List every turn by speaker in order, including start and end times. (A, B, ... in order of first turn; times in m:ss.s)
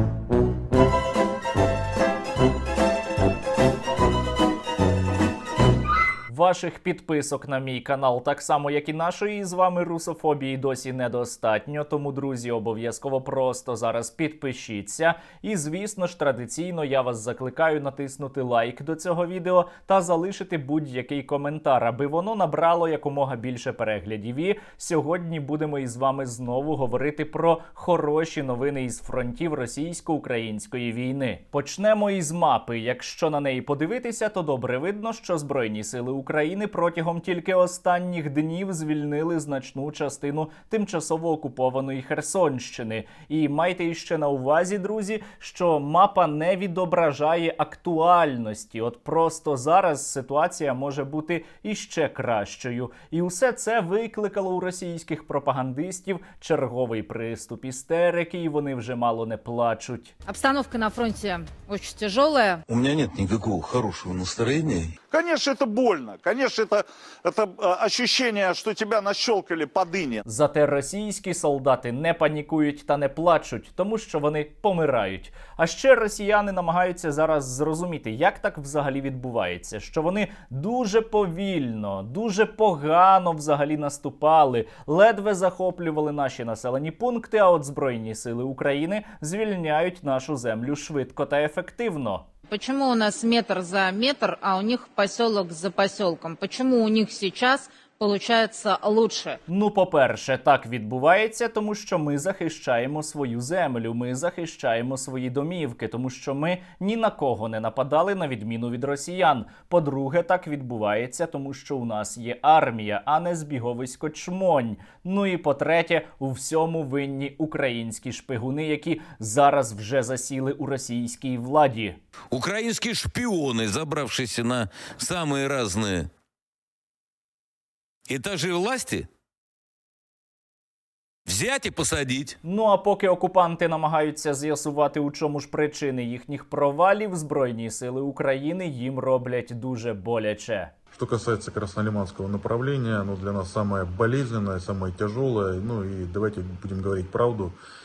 0:06.3-1:00.1 A
1:00.2-1:02.6 B
1:02.7-1:04.9 C
1:05.1-1:10.2 D
1:10.2-1:32.2 A
1:32.5-1:39.4 B
1:39.5-2:02.0 A
2:02.3-2:06.1 C
2:08.1-2:09.1 C
2:11.3-2:12.4 C
2:12.4-2:20.7 A
2:20.9-2:27.6 E